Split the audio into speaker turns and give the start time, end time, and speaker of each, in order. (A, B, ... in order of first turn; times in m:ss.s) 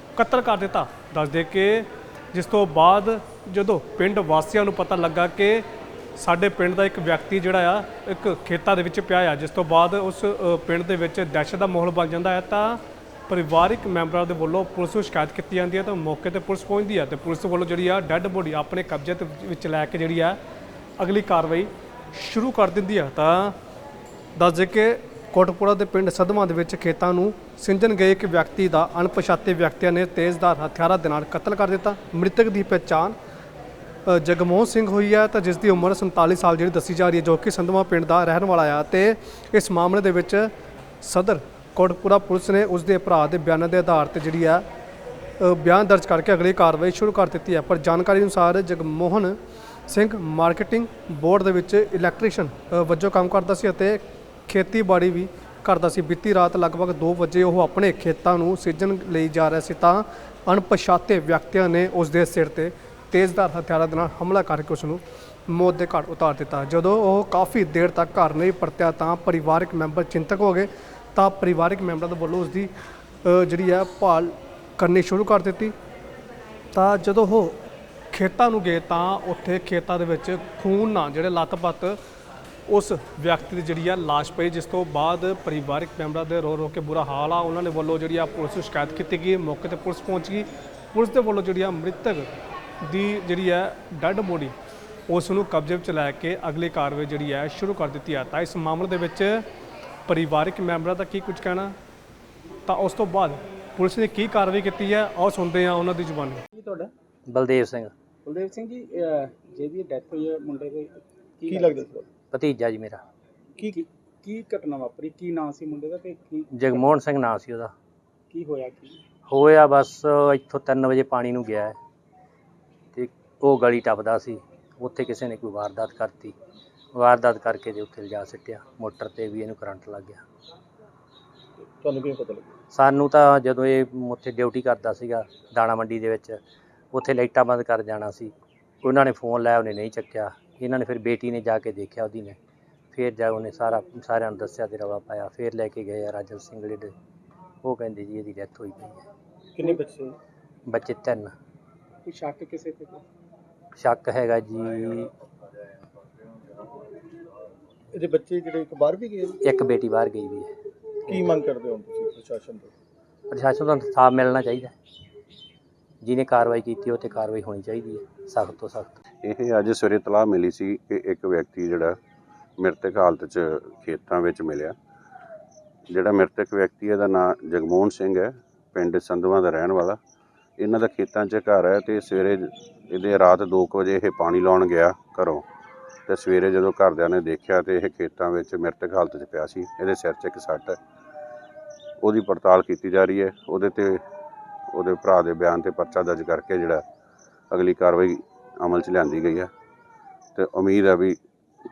0:00.2-0:05.6 A
0:06.2-0:20.4 A
0:21.0-0:23.5 A
0:24.4-0:33.2 A
0:34.0-0:40.5 A
0:41.0-0:44.6 A
0:45.4-1:12.7 A
1:13.2-1:15.7 A
1:16.7-1:17.6 A
1:18.1-1:22.0 A
1:22.7-1:32.3 A
1:32.8-1:34.5 A
1:35.1-1:39.4 A
1:40.1-1:41.7 A
1:42.7-1:46.4 A
1:46.5-1:46.9 B
1:47.3-1:47.9 C
1:48.2-1:51.9 B
1:51.5-1:52.0 D
1:52.3-1:53.0 C
1:53.7-1:56.8 B
1:56.5-1:57.7 C
1:58.3-1:59.0 B
1:59.3-2:01.8 C
2:02.9-2:06.4 C
2:06.9-2:10.2 C
2:11.6-2:12.5 D
2:12.7-2:16.4 C
2:16.9-2:22.4 C
2:22.9-2:26.9 C
2:27.6-2:29.0 C
2:29.6-2:30.2 D
2:30.7-2:31.3 C
2:32.0-2:33.0 B
2:33.8-2:35.1 C
2:37.9-2:39.4 D
2:39.4-2:40.5 C
2:41.1-2:42.7 D
2:43.3-2:44.7 C
2:46.0-2:49.0 C
2:49.2-2:52.0 E
2:52.6-2:54.8 E
2:55.9-3:00.0 E
3:00.6-3:05.5 E
3:06.1-3:10.8 E
3:12.0-3:14.0 E
3:14.7-3:16.8 E
3:17.5-3:19.5 E
3:20.3-3:21.2 E